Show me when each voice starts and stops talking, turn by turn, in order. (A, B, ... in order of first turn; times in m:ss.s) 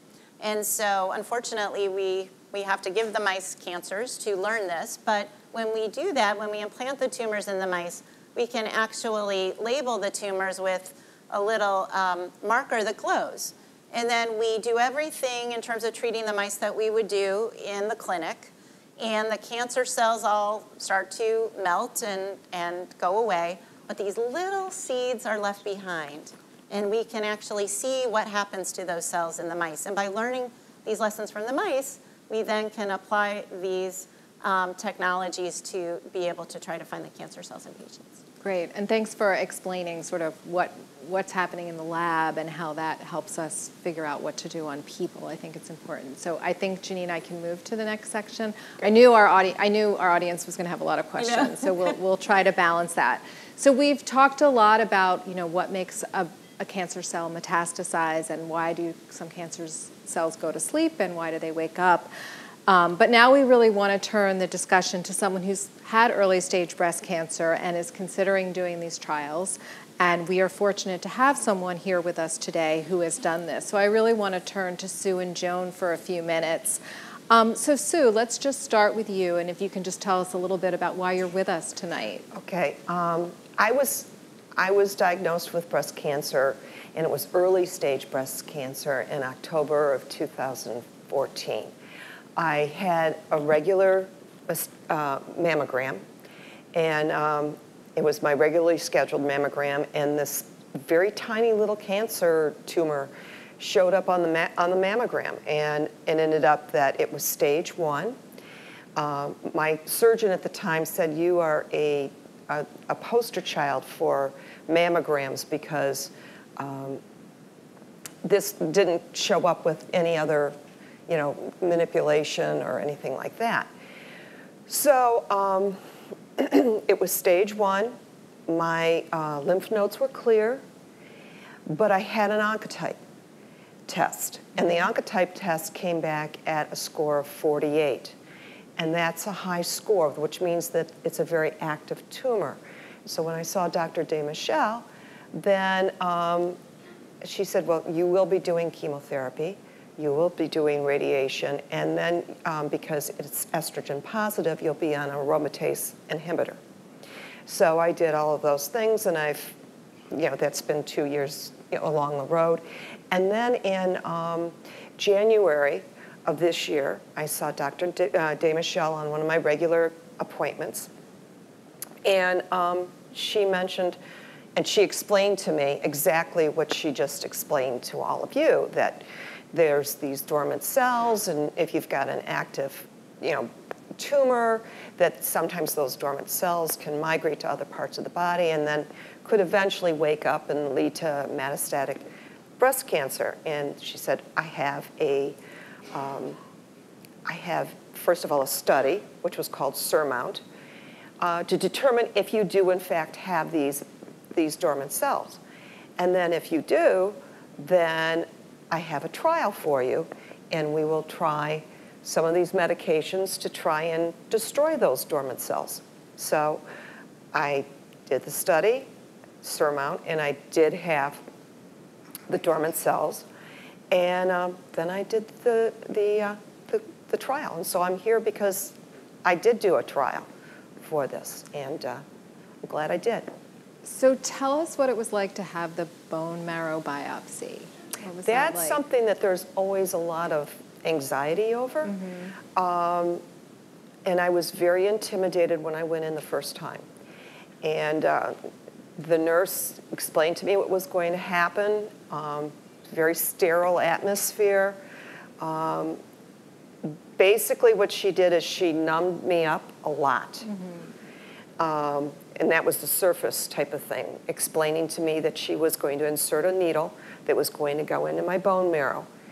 0:00.4-0:38.2 A
0:38.4-1:02.1 B
0:51.2-0:51.9 A
1:02.7-1:22.2 B
1:22.3-1:31.7 C
1:32.4-1:36.0 C
1:36.7-1:48.2 C
1:49.0-1:57.0 C
1:58.2-2:00.5 C
2:01.1-2:03.7 C
2:04.7-2:05.8 C
2:06.4-2:07.9 C
2:08.5-2:10.6 C
2:11.6-2:13.0 C
2:13.9-2:18.2 C
2:18.8-2:26.6 C
2:27.2-2:36.6 C
2:37.4-2:39.5 C
2:40.1-2:50.9 C
2:52.0-2:54.0 C
2:54.6-3:12.0 C
3:12.6-3:15.4 C
3:15.9-3:16.4 C
3:17.2-3:20.4 C
3:21.2-3:25.4 C
3:26.0-3:36.6 C
3:37.3-3:38.9 C
3:39.4-3:41.2 C
3:42.3-3:43.2 C
3:43.9-3:50.3 C
3:50.8-3:52.0 C
3:52.6-3:53.3 C
3:53.8-3:58.8 B
3:58.2-4:01.9 C
4:01.8-4:02.3 B
4:02.6-4:03.2 C
4:04.0-4:06.8 C
4:07.6-4:08.4 C
4:09.0-4:14.8 C
4:15.4-4:16.0 C
4:16.8-4:20.4 C
4:20.4-4:20.9 B
4:21.6-4:29.1 C